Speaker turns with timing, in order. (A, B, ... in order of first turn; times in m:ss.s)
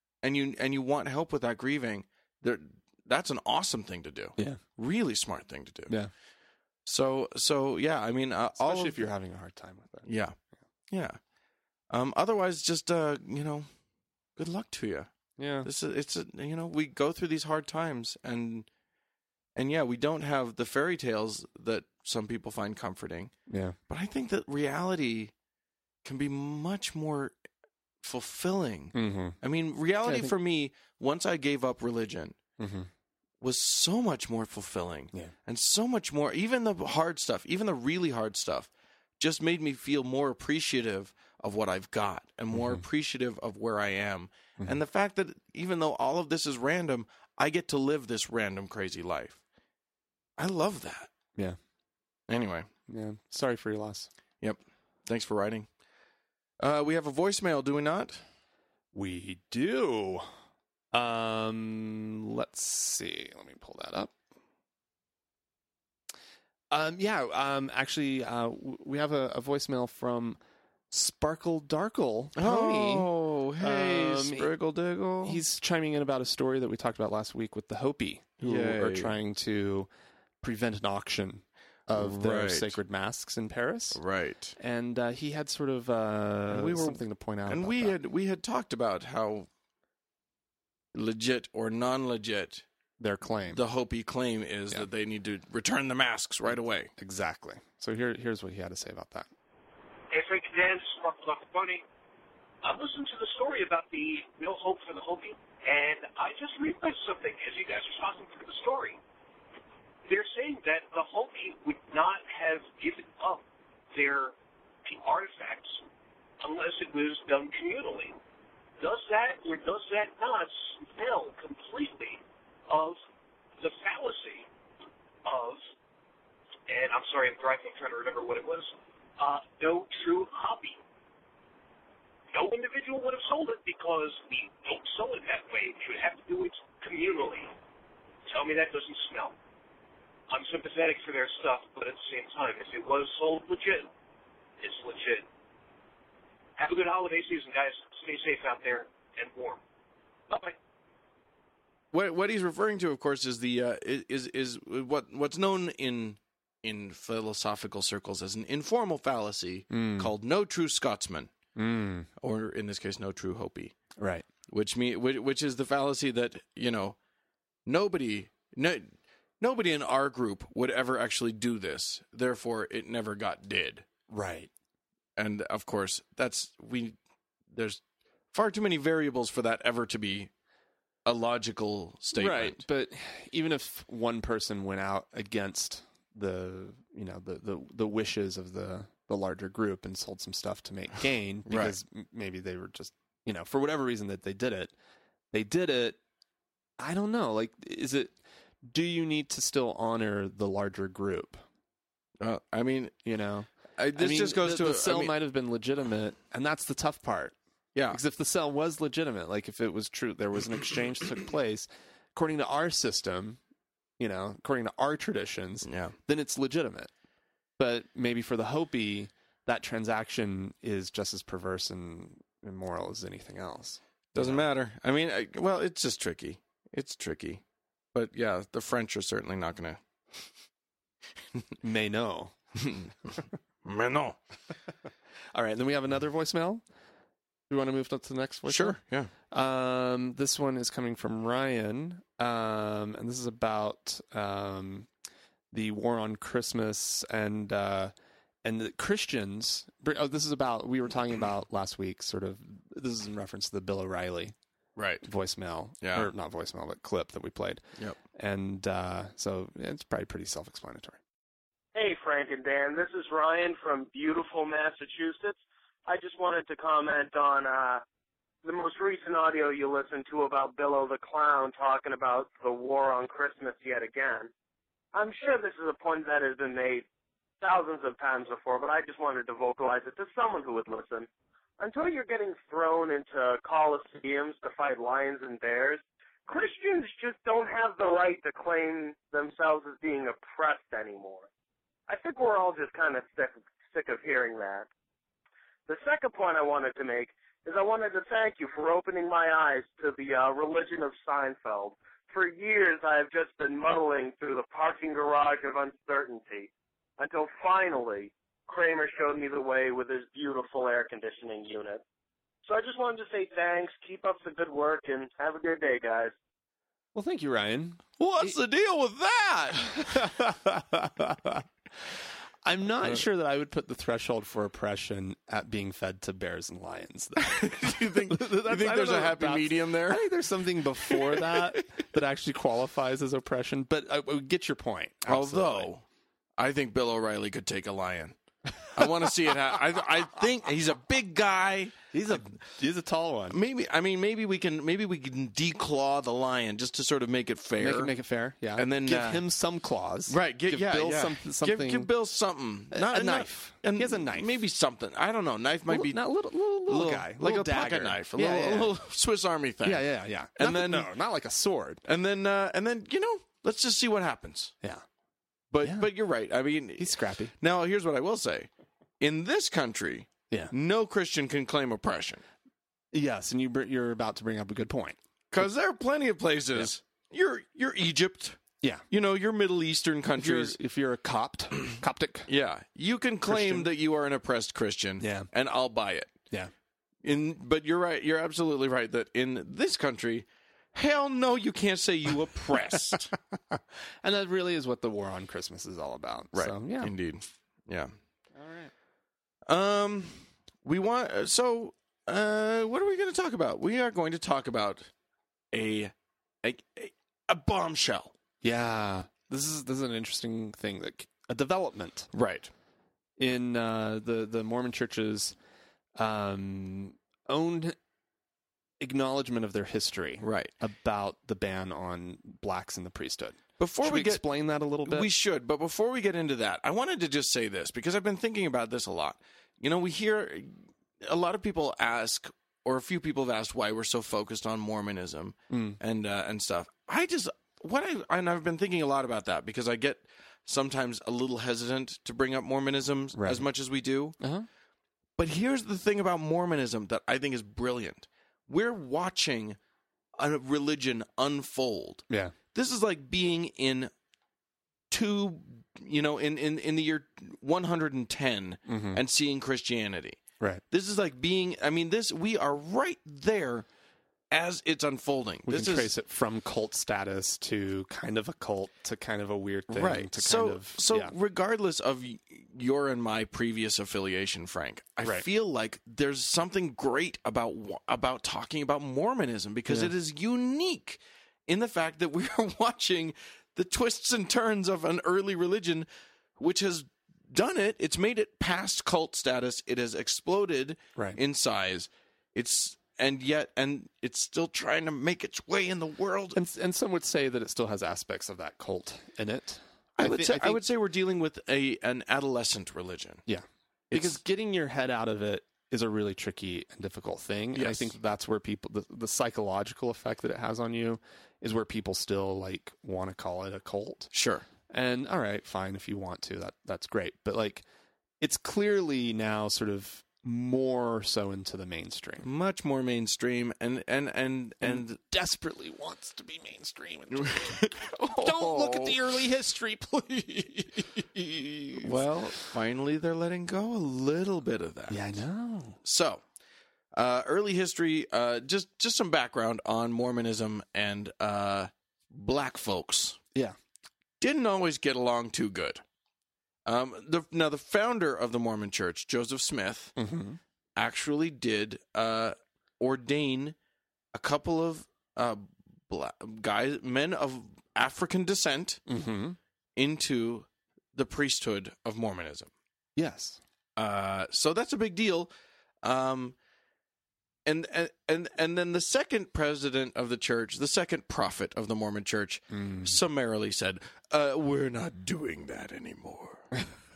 0:00.2-0:05.9 A
0:06.9-0:09.1 A
0:08.6-0:10.1 B
0:10.0-0:10.4 A
0:10.9-0:11.2 A
0:11.9-0:13.7 A
0:14.4-0:15.1 A
0:15.4-0:15.7 B
0:15.6-0:18.7 A
0:19.6-0:23.3 A
0:23.5-0:23.8 B
0:23.9-0:25.3 A
0:26.0-0:27.4 A
0:28.0-0:32.4 A
0:28.9-0:29.4 B
0:30.0-0:30.4 B
0:32.6-0:32.9 B
0:33.4-0:49.4 A
0:42.5-0:42.8 B
0:50.4-0:51.1 A
0:52.3-0:52.7 A
0:52.9-0:54.1 B
0:54.4-0:55.7 A
0:56.6-0:58.2 A
0:58.9-1:00.3 B
1:00.9-1:04.1 B
1:06.7-1:10.4 B
1:10.9-1:14.5 B
1:12.4-1:15.4 A
1:15.2-1:19.9 B
1:18.4-1:19.2 A
1:20.4-1:24.0 B
1:21.9-1:22.8 A
1:23.9-1:24.6 A
1:24.6-1:28.0 B
1:26.5-1:29.5 A
1:30.9-1:32.6 A
1:33.0-1:33.6 B
1:33.5-1:36.9 A
1:37.0-1:39.3 B
1:40.1-1:41.8 C
1:42.6-1:49.0 C
1:50.1-1:54.3 C
1:54.9-1:55.8 C
1:56.4-1:58.2 C
1:58.8-2:03.0 C
2:03.6-2:04.5 C
2:05.2-2:05.7 C
2:06.7-2:10.8 C
2:12.3-2:17.5 C
2:18.3-2:19.4 C
2:20.3-2:23.9 C
2:24.6-2:25.3 C
2:26.6-2:29.6 C
2:30.3-2:30.6 C
2:31.9-2:41.3 A
2:39.7-2:40.1 B
2:41.6-2:42.1 B
2:42.2-2:43.8 A
2:44.0-2:44.3 B
2:44.5-2:47.0 A
2:47.7-2:53.9 A
2:54.1-2:54.5 B
2:55.2-2:57.0 A
2:57.5-2:57.8 A
2:58.3-3:00.3 A
3:01.1-3:02.6 A
3:02.2-3:14.7 B
3:11.5-3:11.8 A
3:15.3-3:16.0 B
3:16.8-3:21.4 B
3:22.2-3:23.0 A
3:23.0-3:27.4 B
3:23.8-3:25.2 A
3:27.8-3:28.0 A
3:27.9-3:33.4 B
3:34.0-3:36.9 B
3:35.6-3:36.0 A
3:37.6-3:44.5 B
3:44.2-3:47.4 A
3:47.9-3:49.8 A
3:51.6-3:52.3 B
3:52.6-3:53.1 A
3:53.6-3:54.2 A
3:55.3-3:56.6 B
3:57.5-3:58.8 B
3:58.5-3:59.1 A
3:59.3-4:04.9 B
4:05.5-4:07.9 B
4:08.4-4:14.4 B
4:14.8-4:15.0 A
4:15.0-4:21.0 B
4:15.8-4:16.1 A
4:21.7-4:27.8 D
4:28.4-4:34.3 D
4:34.9-4:36.9 D
4:37.4-4:41.1 D
4:41.6-4:51.3 D
4:51.9-4:54.7 D
4:55.7-5:11.8 D
5:12.4-5:16.1 D
5:16.9-5:18.4 B
5:18.0-5:20.1 A
5:19.7-5:35.7 B
5:27.2-5:30.1 A
5:30.9-5:31.4 A
5:35.1-5:35.8 A
5:36.4-5:42.4 A
5:38.7-5:39.3 B
5:41.9-5:43.4 B
5:43.3-5:47.9 A
5:47.6-5:51.9 B
5:48.6-5:49.2 A
5:50.1-5:56.0 A
5:52.7-5:54.4 B
5:55.7-5:58.8 B
5:56.7-6:00.9 A
5:59.6-6:01.8 B
6:01.8-6:04.5 A
6:05.5-6:08.5 A
6:05.6-6:05.9 B
6:06.8-6:07.3 B
6:09.0-6:12.2 A
6:12.9-6:15.5 B
6:15.3-6:20.6 A
6:20.2-6:22.3 B
6:22.3-6:26.1 A
6:23.3-6:23.7 B
6:25.0-6:25.3 B
6:27.0-6:33.1 A
6:33.5-6:36.9 B
6:36.3-6:37.9 A
6:38.4-6:38.7 B
6:39.5-6:44.9 A
6:45.5-6:48.1 A
6:48.4-6:52.1 B
6:52.1-6:52.5 A
6:53.2-6:55.4 B
6:56.0-6:57.8 B
6:58.8-7:05.1 B
7:00.2-7:00.5 A
7:03.6-7:04.3 A
7:04.8-7:24.2 A
7:15.5-7:15.8 B
7:23.2-7:23.5 B
7:24.2-7:24.5 B
7:25.2-7:29.6 A
7:30.2-7:33.9 A
7:32.1-7:32.4 B
7:34.9-7:43.7 A
7:38.7-7:39.0 B
7:44.3-7:45.9 A
7:45.5-7:51.1 B
7:49.7-8:05.9 A
7:59.7-7:59.9 B
8:06.4-8:16.4 A
8:16.3-8:20.6 B
8:20.0-8:23.2 A
8:23.3-8:34.1 B
8:23.9-8:24.2 A
8:27.5-8:27.9 A
8:34.1-8:34.5 A
8:34.7-8:37.6 B
8:38.2-8:42.3 B
8:42.2-8:45.0 A
8:44.6-8:52.2 B
8:47.1-8:49.0 A
8:51.8-8:55.1 A
8:54.9-8:55.8 B
8:55.8-8:56.2 A
8:56.9-9:03.2 A
9:04.2-9:05.8 A
9:06.7-9:10.0 A
9:10.0-9:10.4 B
9:10.8-9:13.6 A
9:14.1-9:18.8 A
9:18.9-9:19.4 B
9:19.8-9:22.5 A
9:23.0-9:23.4 B
9:23.8-9:25.3 A
9:25.8-9:26.4 A
9:27.5-9:36.6 A
9:32.5-9:33.0 B